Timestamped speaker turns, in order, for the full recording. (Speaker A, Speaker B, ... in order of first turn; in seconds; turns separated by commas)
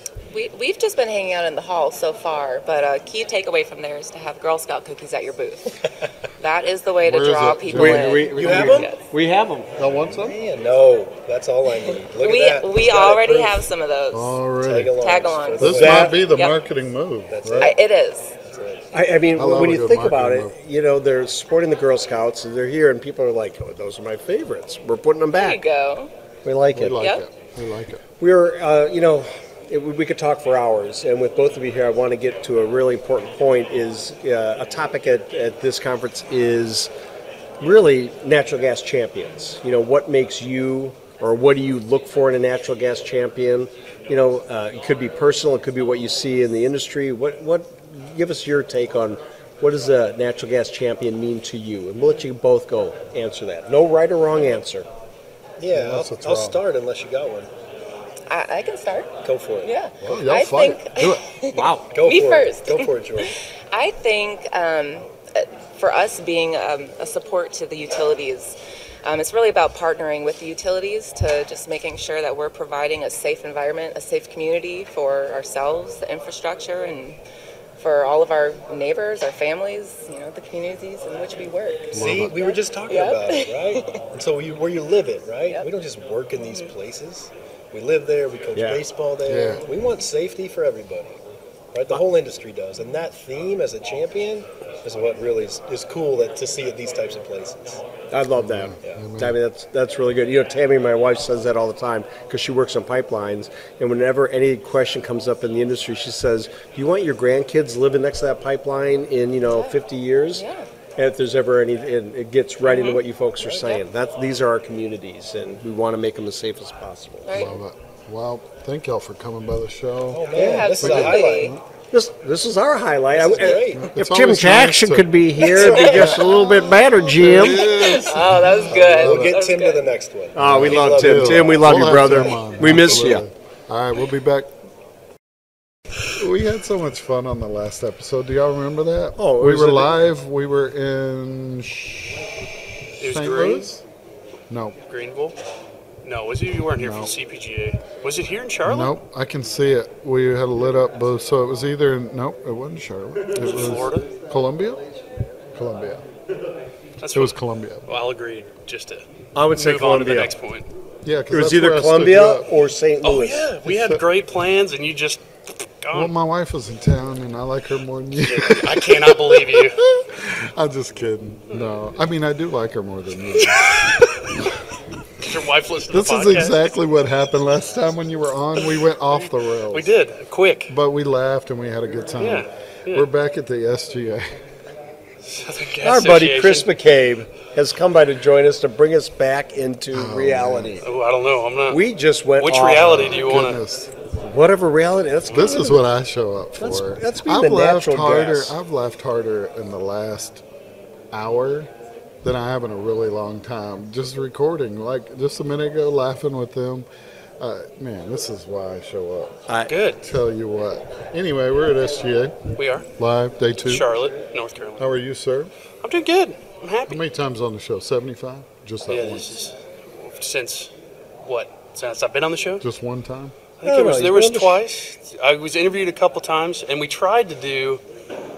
Speaker A: 0.3-5.8, Speaker A: 6.4-9.0, Speaker B: 7.0-8.6, Speaker C: 7.7-9.7, Speaker D: 8.3-8.9, Speaker B: 9.8-10.4, Speaker D: 10.1-13.6, Speaker A: 11.9-14.4, Speaker B: 14.1-15.0, Speaker D: 14.6-16.2, Speaker A: 15.0-16.6, Speaker B: 15.6-17.8, Speaker C: 15.8-16.2, Speaker D: 17.3-17.8, Speaker A: 17.6-18.4, Speaker D: 18.5-18.8, Speaker C: 18.9-25.6, Speaker B: 19.4-20.6, Speaker A: 25.3-26.1, Speaker C: 26.4-27.1, Speaker B: 26.7-28.0, Speaker A: 27.0-27.2, Speaker C: 28.2-36.9, Speaker C: 37.6-54.9, Speaker D: 55.6-57.5, Speaker B: 55.7-56.6, Speaker A: 58.3-77.2, Speaker D: 59.2-59.7, Speaker B: 60.0-61.2, Speaker C: 61.5-61.9, Speaker D: 61.9-63.4, Speaker A: 77.8-84.0, Speaker B: 81.9-82.4, Speaker D: 81.9-91.2, Speaker C: 88.5-88.8, Speaker B: 89.3-89.7, Speaker D: 91.7-97.8, Speaker C: 98.1-110.5, Speaker B: 98.3-99.4, Speaker A: 109.5-109.8, Speaker A: 110.3-110.7, Speaker C: 111.0-117.3, Speaker A: 112.7-113.0, Speaker A: 117.2-117.6, Speaker B: 117.3-121.6, Speaker D: 120.1-121.6, Speaker A: 120.3-121.6, Speaker C: 120.3-120.8, Speaker C: 121.9-127.7, Speaker D: 123.1-123.9, Speaker B: 123.7-129.4, Speaker A: 125.4-126.2, Speaker D: 125.4-126.2, Speaker A: 127.4-129.9, Speaker D: 128.7-132.1, Speaker C: 130.3-133.3, Speaker B: 130.4-134.5, Speaker B: 136.1-142.2, Speaker C: 139.2-140.0, Speaker E: 143.0-143.7, Speaker B: 143.0-143.8, Speaker B: 144.5-144.8, Speaker E: 144.9-145.4, Speaker E: 146.0-149.0, Speaker B: 146.8-147.2, Speaker B: 148.6-154.8, Speaker E: 153.4-154.1, Speaker B: 155.5-156.1, Speaker E: 157.0-160.7, Speaker B: 157.1-157.9, Speaker C: 159.3-160.3, Speaker B: 161.0-162.5, Speaker C: 161.3-163.5, Speaker E: 163.0-165.2, Speaker B: 163.6-164.0, Speaker E: 165.8-166.1, Speaker B: 165.9-174.5, Speaker E: 168.3-169.8, Speaker E: 173.4-174.2, Speaker E: 175.2-176.7, Speaker B: 175.9-179.9, Speaker E: 179.7-180.8, Speaker B: 180.7-184.3, Speaker E: 182.2-183.1, Speaker E: 185.2-186.7, Speaker C: 185.8-190.9, Speaker B: 189.9-190.9, Speaker E: 190.8-191.8, Speaker C: 191.7-193.2, Speaker E: 192.4-193.6, Speaker B: 192.8-193.9, Speaker C: 194.2-195.8, Speaker B: 195.3-200.4, Speaker C: 196.6-198.6, Speaker B: 201.1-201.7, Speaker B: 202.2-206.9, Speaker B: 207.4-209.5, Speaker C: 209.5-209.7, Speaker E: 209.7-210.1, Speaker B: 210.0-213.9, Speaker E: 212.6-212.9, Speaker E: 213.6-214.9, Speaker B: 214.8-215.5, Speaker E: 215.8-217.0, Speaker B: 216.9-219.4, Speaker E: 218.9-220.7, Speaker E: 221.2-222.7, Speaker B: 222.6-223.3, Speaker E: 223.6-227.8, Speaker C: 223.6-224.6